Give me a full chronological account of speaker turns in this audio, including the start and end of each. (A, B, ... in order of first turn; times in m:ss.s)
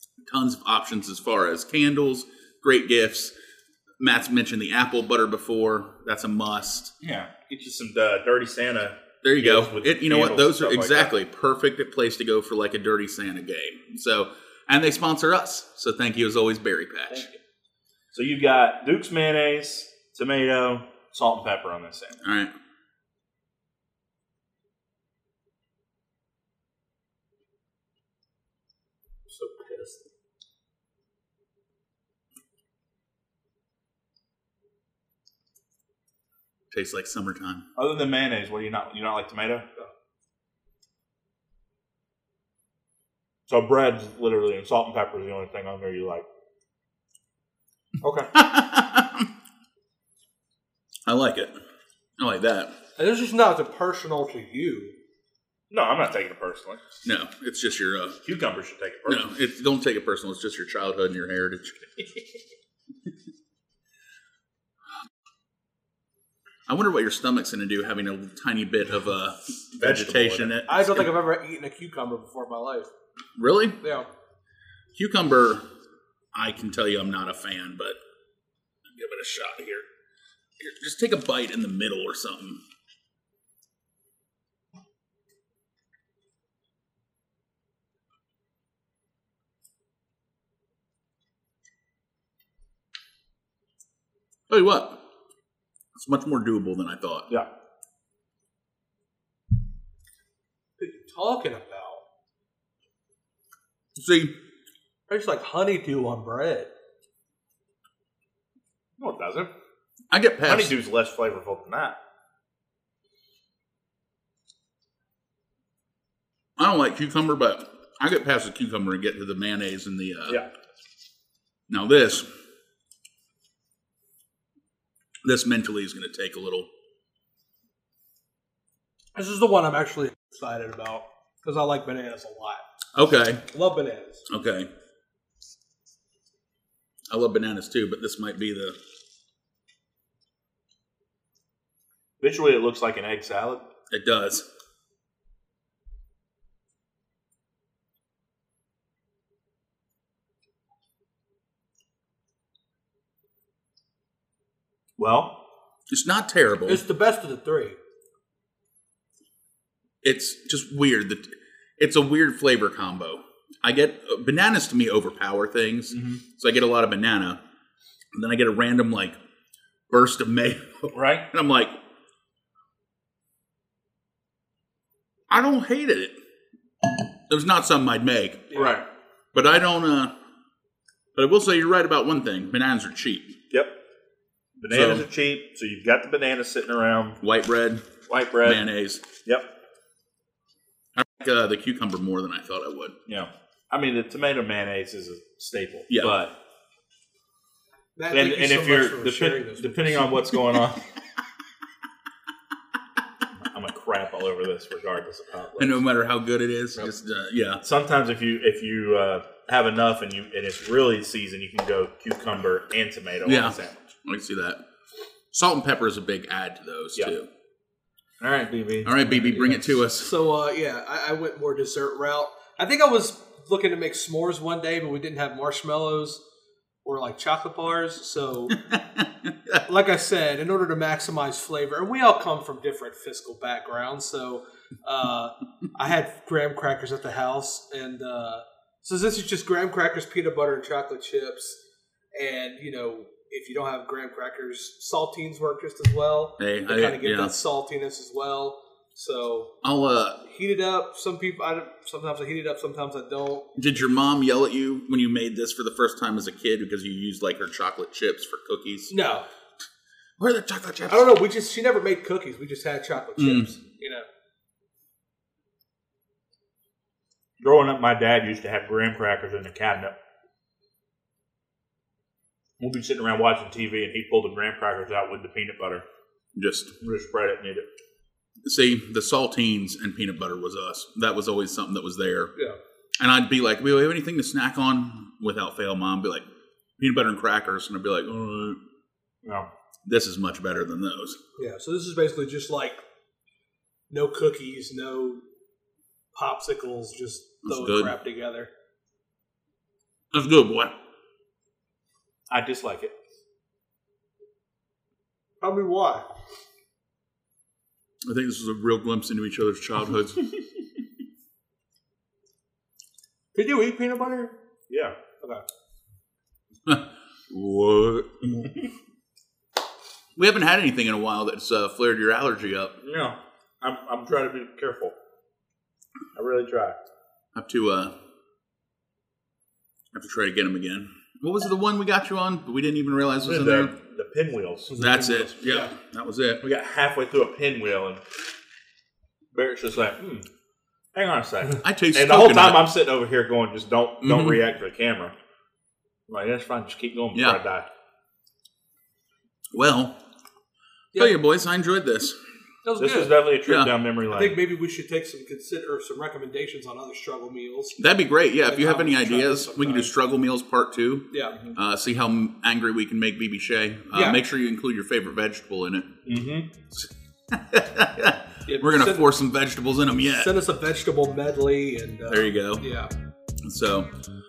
0:00.3-0:03.3 A
0:04.0-0:06.9 A
0:07.0-0:11.1 B
0:09.2-0:17.3 A
0:18.1-0:22.2 B
0:22.2-0:22.5 A
0:29.3-0:30.0 C
0:36.7-0:37.6 A
0:37.8-0:39.6 B
0:43.5-0:46.2 B
0:48.0-0:48.3 B
0:48.3-0:49.3 A
0:51.0-0:51.5 A
0:52.2-0:52.7 A
0:53.0-0:55.0 C
0:55.7-0:56.8 B
0:57.0-0:58.2 A
0:58.2-0:59.3 B
0:59.0-1:02.0 A
1:06.7-1:11.1 A
1:09.8-1:10.6 B
1:10.7-1:12.9 C
1:13.4-1:13.8 A
1:13.8-1:14.1 C
1:14.9-1:15.6 A
1:16.3-1:18.0 A
1:18.9-1:19.9 A
1:20.6-1:22.6 A
1:34.5-1:35.0 A
1:35.9-1:37.3 A
1:40.8-1:42.0 C
1:44.0-1:44.3 A
1:45.1-1:46.7 C
1:49.0-1:49.5 B
1:50.1-1:50.7 A
1:50.4-1:52.0 B
1:56.6-2:00.4 A
2:01.7-2:02.3 A
2:05.2-2:06.7 A
2:09.1-2:12.6 C
2:12.9-2:13.4 A
2:13.5-2:14.2 C
2:14.3-2:14.7 A
2:17.1-2:18.8 A
2:22.2-2:23.6 B
2:23.9-2:24.4 A
2:35.0-2:35.4 B
2:35.9-2:36.8 A
2:36.7-2:37.8 C
2:40.0-2:47.4 A
2:45.9-2:46.2 B
2:48.1-2:49.2 A
2:49.9-2:51.8 A
2:50.9-2:51.3 B
2:55.3-2:56.1 A
2:57.3-2:58.5 A
2:58.5-2:58.8 C
2:58.5-2:58.8 B
2:59.3-3:00.1 A
3:01.2-3:03.4 A
3:04.6-3:07.2 B
3:04.7-3:05.0 A
3:07.2-3:07.8 A
3:08.1-3:08.6 B
3:08.4-3:09.0 A
3:09.2-3:09.5 B
3:11.0-3:12.9 A
3:13.1-3:16.3 B
3:15.9-3:16.2 A
3:18.0-3:20.1 C
3:18.1-3:20.8 B
3:23.5-3:25.8 B
3:25.6-3:27.6 A
3:27.6-3:33.9 B
3:33.2-3:34.6 A
3:35.3-3:37.3 A
3:38.2-3:39.6 B
3:38.8-3:40.1 A
3:39.4-3:46.2 C
3:46.8-3:48.6 C
3:48.6-3:49.6 A
3:49.6-4:01.6 C
4:02.1-4:09.5 C
4:06.4-4:07.4 A
4:09.6-4:10.2 A
4:10.2-4:13.5 C
4:13.6-4:19.0 A
4:18.9-4:19.2 C
4:20.2-4:21.1 A
4:20.9-4:24.1 C
4:23.2-4:23.5 A
4:27.4-4:29.9 B
4:32.6-4:35.8 B
4:36.4-4:36.7 A
4:36.8-4:37.6 B
4:38.4-4:42.3 A
4:43.0-4:46.2 A
4:46.8-4:48.6 A
4:49.2-4:49.5 B
4:49.8-4:51.2 A
4:51.4-4:52.8 C
4:53.9-4:55.2 C
4:56.1-4:58.5 C
4:57.4-4:57.9 A
5:00.1-5:00.7 A
5:02.3-5:02.9 B
5:05.4-5:06.1 C
5:08.0-5:10.2 A
5:13.3-5:14.4 C
5:14.7-5:15.0 B
5:16.6-5:18.3 A
5:20.2-5:22.8 A
5:22.8-5:24.9 B
5:26.1-5:26.8 B
5:27.3-5:27.9 A
5:29.9-5:33.7 A
5:33.2-5:34.8 B
5:34.7-5:35.7 C
5:34.7-5:36.4 A
5:36.4-5:38.0 B
5:39.3-5:40.2 B
5:40.9-5:45.1 B
5:41.6-5:42.7 A
5:44.0-5:44.4 A
5:46.1-5:47.7 B
5:47.1-5:47.4 A
5:49.5-5:50.0 A
5:50.9-5:51.2 C
5:51.0-5:52.2 A
5:52.6-5:53.2 C
5:52.8-5:54.4 B
5:54.1-5:57.8 C
5:57.8-6:06.0 A
5:58.4-5:59.9 C
6:03.9-6:04.2 C
6:06.0-6:06.5 B
6:06.7-6:10.4 A
6:08.4-6:09.1 C
6:10.0-6:12.9 C
6:12.1-6:12.6 A
6:13.4-6:13.9 A